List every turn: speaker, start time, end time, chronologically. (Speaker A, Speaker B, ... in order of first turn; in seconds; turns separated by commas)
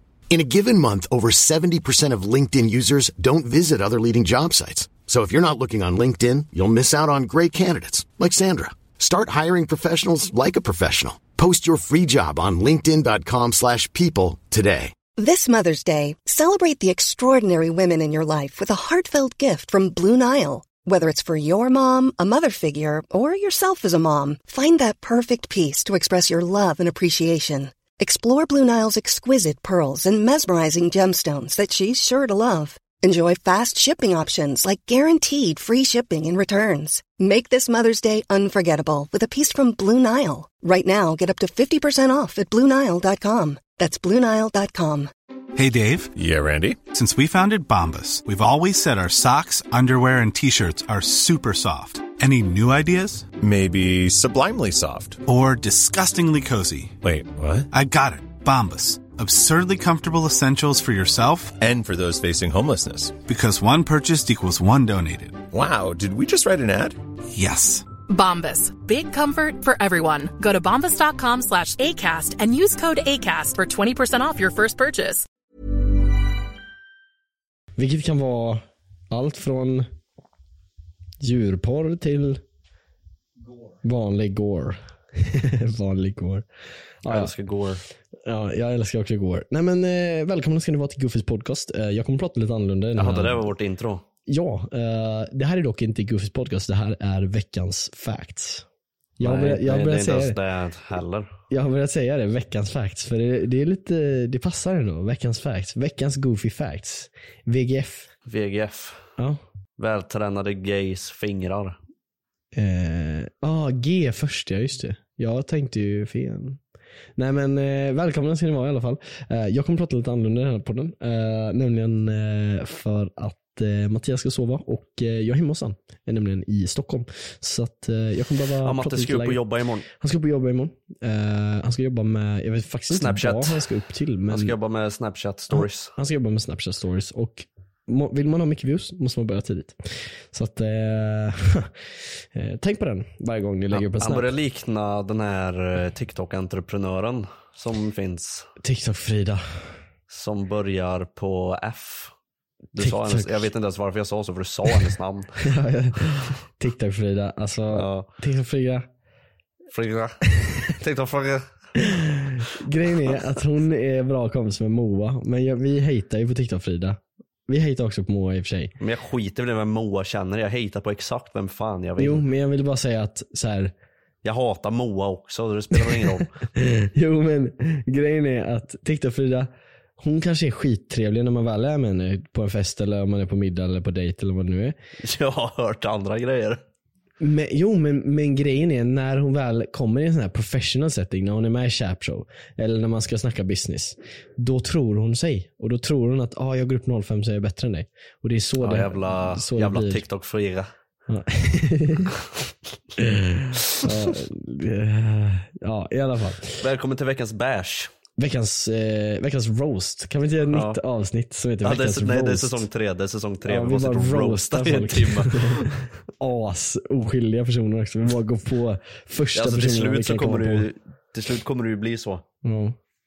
Speaker A: 0.3-14.9, Speaker B: 15.2-45.1, Speaker C: 45.5-46.1, Speaker D: 46.1-46.8, Speaker C: 46.9-53.3, Speaker D: 53.4-55.2, Speaker C: 55.2-57.0, Speaker D: 57.0-57.7, Speaker C: 57.7-61.6, Speaker D: 61.6-63.2, Speaker C: 63.2-65.4, Speaker D: 65.5-67.0, Speaker C: 67.3-67.8, Speaker E: 68.1-75.2, Speaker F: 77.8-79.9, Speaker F: 81.2-82.4, Speaker F: 83.8-86.5, Speaker F: 87.0-87.3, Speaker G: 87.0-87.8, Speaker F: 88.2-93.5, Speaker G: 93.0-94.0, Speaker F: 94.2-98.7, Speaker F: 99.2-100.4, Speaker G: 99.2-101.3, Speaker F: 101.5-108.1, Speaker G: 108.3-109.1, Speaker G: 109.8-111.8, Speaker F: 112.5-116.6, Speaker F: 117.2-129.4, Speaker G: 128.6-129.8, Speaker F: 129.9-134.5, Speaker G: 132.9-133.6, Speaker G: 134.3-135.9, Speaker F: 135.5-144.3, Speaker G: 143.7-148.5, Speaker F: 148.6-149.7, Speaker G: 150.1-152.1, Speaker G: 152.7-155.3, Speaker F: 152.8-153.5, Speaker F: 155.4-158.9, Speaker G: 157.7-158.1, Speaker G: 159.7-161.8, Speaker F: 161.8-168.7, Speaker G: 168.8-172.2, Speaker F: 172.0-173.7, Speaker G: 174.2-176.4, Speaker F: 175.7-184.8, Speaker G: 185.0-186.6, Speaker F: 187.2-200.0, Speaker G: 198.6-200.7, Speaker F: 201.1-202.2, Speaker F: 203.0-206.6, Speaker G: 203.7-204.1, Speaker G: 206.6-207.9, Speaker F: 208.2-212.7, Speaker G: 210.5-210.8, Speaker G: 211.6-215.8, Speaker F: 213.4-220.7, Speaker G: 219.3-222.2, Speaker F: 222.4-222.8